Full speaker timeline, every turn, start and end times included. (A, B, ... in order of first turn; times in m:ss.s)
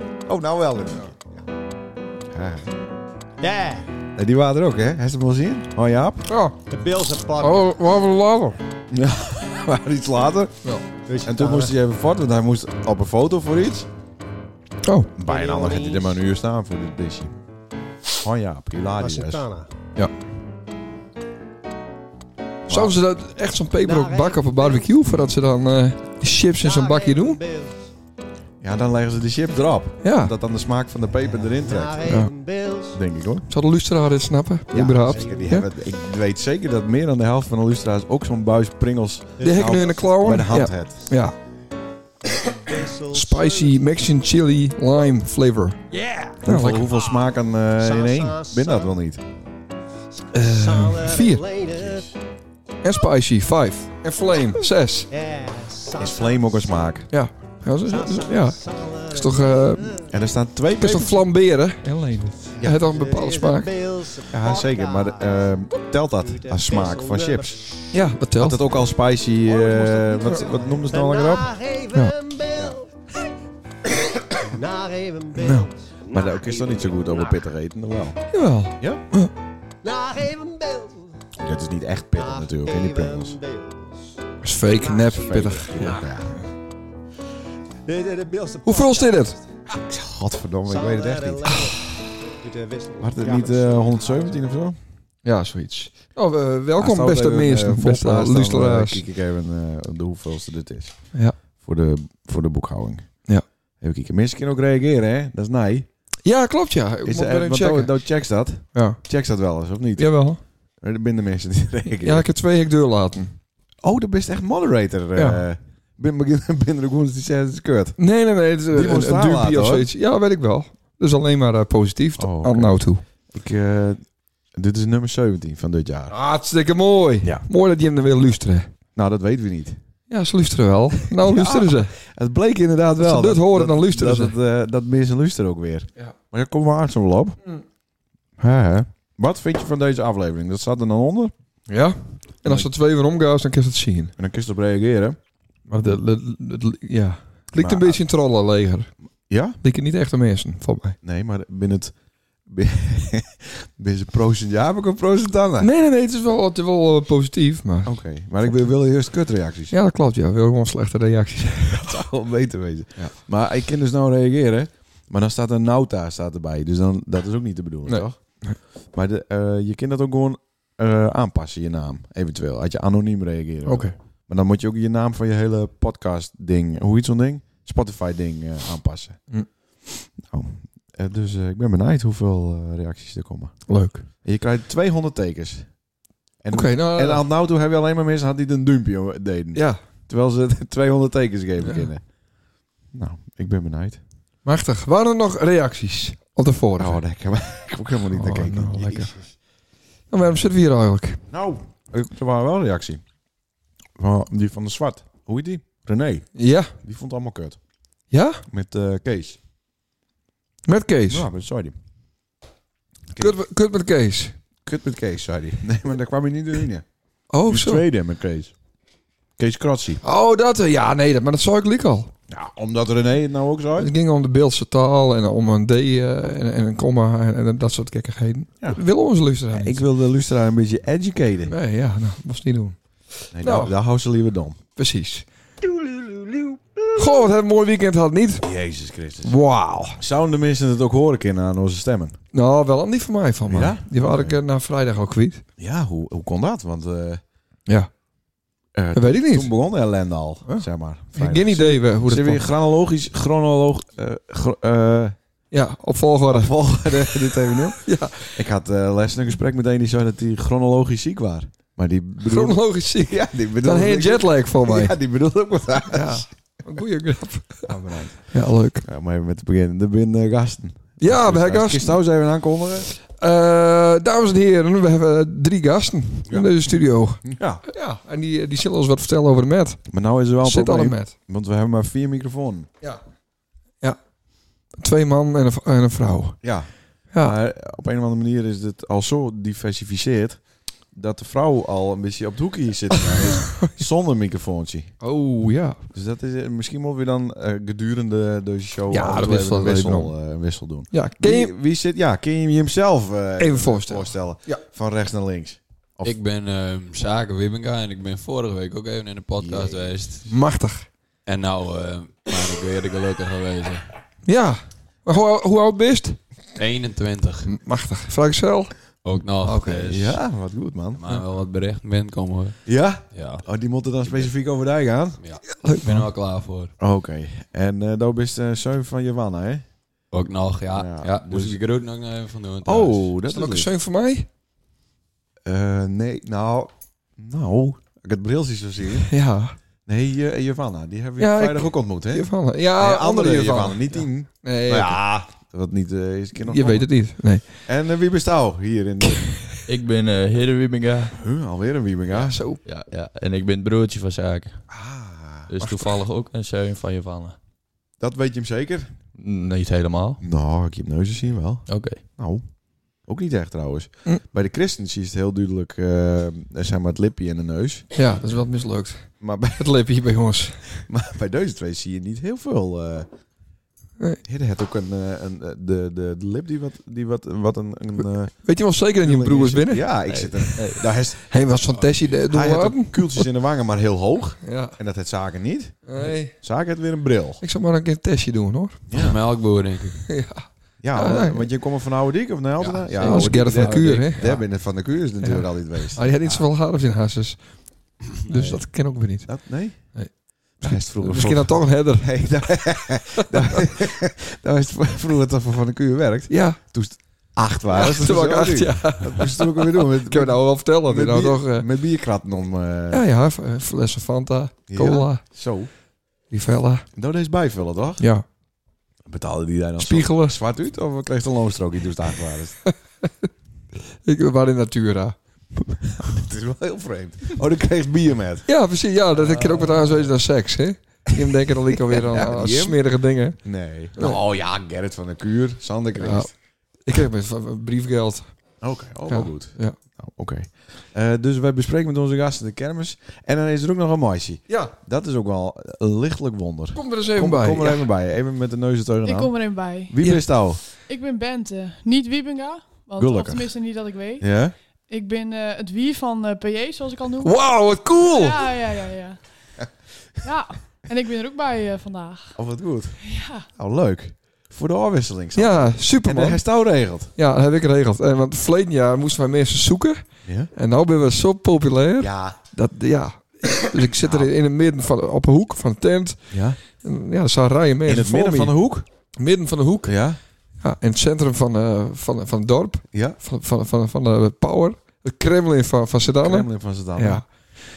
0:00.2-0:01.1 A
0:02.3-0:02.7 A
0:03.4-0:03.9 B
0:04.2-0:06.3 A
0:06.3-0:06.6 C
0:06.7-0:07.8 B
0:07.4-0:08.6 C
0:08.9-0:10.6 A
0:11.0-0:11.7 B
0:11.2-0:13.9 A
0:14.8-0:15.1 C
0:15.2-0:17.3 A
0:15.2-0:16.2 B
0:18.2-0:19.4 A
0:19.0-0:19.7 B
0:22.7-0:23.0 A
0:22.7-0:27.4 C
0:23.8-0:25.0 B
0:26.5-0:27.8 B
0:28.6-0:32.2 A
0:30.0-0:30.3 C
0:31.4-0:33.0 B
0:32.0-0:32.3 C
0:32.9-0:33.5 A
0:33.5-0:35.7 C
0:34.7-0:41.1 A
0:34.7-0:35.6 B
0:39.4-0:40.1 B
0:39.4-0:41.4 C
0:42.4-0:43.9 B
0:43.1-0:45.8 C
0:45.9-0:47.2 B
0:46.4-0:49.2 A
0:46.4-0:46.9 C
0:47.8-0:48.9 B
0:50.3-0:51.4 C
0:50.3-0:52.0 B
0:51.7-0:52.1 A
0:52.8-0:55.1 C
0:55.1-0:56.7 B
0:56.0-0:57.1 A
0:57.1-1:00.0 C
0:57.8-1:00.1 B
1:00.1-1:01.2 A
1:00.8-1:03.7 C
1:02.6-1:02.8 A
1:02.6-1:05.4 B
1:04.3-1:07.6 A
1:06.2-1:08.0 B
1:07.9-1:08.6 C
1:08.4-1:11.5 A
1:09.3-1:12.9 B
1:14.3-1:17.4 B
1:15.4-1:15.7 C
1:16.1-1:18.3 A
1:18.3-1:19.3 C
1:18.8-1:19.0 A
1:19.8-1:21.2 B
1:21.4-1:23.4 A
1:22.1-1:24.1 B
1:24.4-1:26.0 C
1:24.7-1:26.2 B
1:25.2-1:26.4 A
1:27.8-1:29.4 B
1:28.6-1:29.4 C
1:29.7-1:31.8 A
1:30.6-1:34.4 B
1:33.0-1:34.8 A
1:35.2-1:39.0 C
1:36.8-1:41.0 A
1:41.6-1:43.1 A
1:43.8-1:45.9 A
1:46.2-1:47.9 C
1:47.0-1:50.1 A
1:48.7-1:49.0 C
1:50.0-1:50.4 C
1:50.8-1:52.3 A
1:52.0-1:53.3 C
1:53.8-1:58.0 A
1:55.2-1:55.4 C
1:58.0-2:03.0 C
1:58.7-1:59.9 A
2:02.2-2:04.0 A
2:04.5-2:06.2 A
2:06.1-2:08.7 C
2:07.2-2:07.5 A
2:08.9-2:09.8 A
2:10.1-2:11.9 C
2:11.0-2:17.4 A
2:13.0-2:14.3 C
2:18.4-2:21.3 A
2:21.7-2:24.1 C
2:24.2-2:25.2 A
2:25.7-2:28.9 C
2:27.6-2:28.0 A
2:29.3-2:29.6 A
2:29.6-2:31.0 C
2:31.0-2:31.9 A
2:32.4-2:35.7 A
2:35.6-2:37.9 C
2:37.8-2:39.7 A
2:39.7-2:42.1 C
2:41.7-2:48.2 A
2:47.9-2:48.6 C
2:48.9-2:59.2 A
2:53.6-2:53.9 C
3:00.2-3:03.6 A
3:03.7-3:04.0 C
3:04.2-3:05.7 A
3:06.4-3:12.0 A
3:06.5-3:07.2 C
3:09.5-3:09.8 C
3:11.6-3:11.9 C
3:12.9-3:14.0 A
3:14.4-3:17.0 C
3:16.8-3:19.3 A
3:18.1-3:19.1 C
3:20.1-3:21.2 C
3:21.3-3:23.0 A
3:24.0-3:26.3 A
3:26.4-3:26.7 C
3:26.8-3:27.6 A
3:28.1-3:28.4 C
3:28.5-3:29.4 A
3:30.6-3:31.3 C
3:31.1-3:31.7 A
3:33.2-3:34.3 C
3:34.6-3:36.8 A
3:37.3-3:37.8 C
3:37.5-3:38.5 A
3:39.4-3:40.0 A
3:40.0-3:42.1 C
3:42.3-3:43.9 A
3:43.8-3:49.8 C
3:49.5-3:51.5 A
3:51.5-3:52.8 C
3:53.3-3:54.6 A
3:53.4-3:53.7 C
3:54.8-3:55.2 C
3:56.0-3:58.5 C
3:58.4-3:59.3 A
3:59.2-4:00.0 C
4:00.0-4:02.2 A
4:02.3-4:05.4 C
4:03.4-4:04.4 A
4:05.6-4:07.2 A
4:08.7-4:15.2 A
4:08.9-4:09.5 C
4:10.5-4:12.5 C
4:15.5-4:18.4 C
4:16.3-4:26.2 A
4:22.2-4:25.0 C
4:25.9-4:28.8 C
4:27.7-4:27.9 A
4:28.8-4:32.9 A
4:31.0-4:32.0 C
4:33.0-4:39.9 C
4:36.2-4:37.6 A
4:39.9-4:42.7 A
4:40.4-4:41.1 C
4:44.7-4:46.4 C
4:46.4-4:46.7 A
4:47.1-4:47.4 C
4:47.2-4:50.4 A
4:50.9-4:55.0 A
4:53.0-4:53.8 C
4:55.0-4:55.8 C
4:55.9-5:06.2 A
4:58.9-5:00.1 C
5:00.9-5:01.5 C
5:03.4-5:04.6 C
5:06.0-5:10.3 D
5:09.4-5:09.9 A
5:10.2-5:10.9 C
5:11.2-5:13.9 D
5:14.2-5:16.2 C
5:16.6-5:17.5 D
5:17.4-5:19.9 C
5:19.0-5:20.2 D
5:19.7-5:21.0 A
5:21.0-5:22.6 D
5:22.6-5:25.2 A
5:23.1-5:23.4 D
5:25.2-5:26.7 D
5:25.5-5:26.1 C
5:26.8-5:29.6 A
5:30.1-5:33.1 D
5:30.7-5:31.6 A
5:32.6-5:33.7 A
5:33.3-5:34.3 C
5:35.4-5:39.1 A
5:39.0-5:39.6 C
5:39.8-5:46.9 A
5:41.2-5:45.0 C
5:46.4-5:47.6 C
5:47.6-5:49.4 A
5:49.6-5:51.2 E
5:51.2-5:52.4 A
5:52.1-5:52.6 C
5:52.6-5:54.6 E
5:54.7-5:55.5 A
5:55.5-5:57.4 E
5:55.6-5:55.9 C
5:58.0-5:58.9 A
5:59.2-6:00.2 E
6:00.2-6:02.4 A
6:01.7-6:02.0 E
6:03.0-6:07.9 A
6:07.9-6:10.9 C
6:09.2-6:09.7 A
6:10.8-6:13.1 A
6:14.2-6:18.4 A
6:18.4-6:19.9 C
6:19.0-6:27.4 A
6:20.1-6:20.8 E
6:21.2-6:23.3 C
6:24.4-6:24.7 C
6:25.9-6:26.3 C
6:27.4-6:28.8 C
6:28.9-6:29.2 A
6:29.0-6:30.0 D
6:30.1-6:31.5 C
6:30.8-6:36.0 A
6:32.6-6:34.4 D
6:33.0-6:34.3 C
6:35.2-6:37.4 C
6:38.1-6:42.6 C
6:38.3-6:38.6 D
6:39.2-6:39.9 A
6:40.6-6:53.0 A
6:43.2-6:43.7 C
6:46.3-6:46.6 C
6:47.7-6:51.7 C
6:52.9-6:55.2 C
6:54.7-6:55.7 A
6:56.3-6:56.8 C
6:57.0-6:58.0 A
6:58.0-6:58.2 C
6:59.1-7:02.6 A
6:59.8-7:00.4 C
7:04.0-7:05.2 C
7:05.9-7:08.5 A
7:08.5-7:13.4 C
7:09.2-7:10.1 A
7:11.1-7:12.8 A
7:13.4-7:16.3 A
7:16.0-7:16.3 C
7:16.8-7:18.3 C
7:18.6-7:30.6 A
7:19.1-7:19.8 C
7:24.5-7:24.7 C
7:26.7-7:27.9 C
7:29.0-7:30.0 F
7:30.0-7:30.3 C
7:30.6-7:34.2 F
7:33.0-7:33.5 A
7:34.2-7:34.5 A
7:34.9-7:39.2 F
7:37.2-7:38.5 C
7:40.2-7:42.4 F
7:42.3-7:47.1 A
7:43.0-7:43.5 F
7:45.3-7:46.4 C
7:47.2-7:58.6 C
7:50.2-7:50.5 A
7:52.0-7:52.4 A
7:53.9-7:54.3 A
7:56.3-7:56.6 A
7:57.8-7:58.8 A
7:59.2-8:00.0 C
7:59.8-8:00.2 A
8:00.6-8:07.3 C
8:02.9-8:03.2 A
8:06.0-8:07.2 A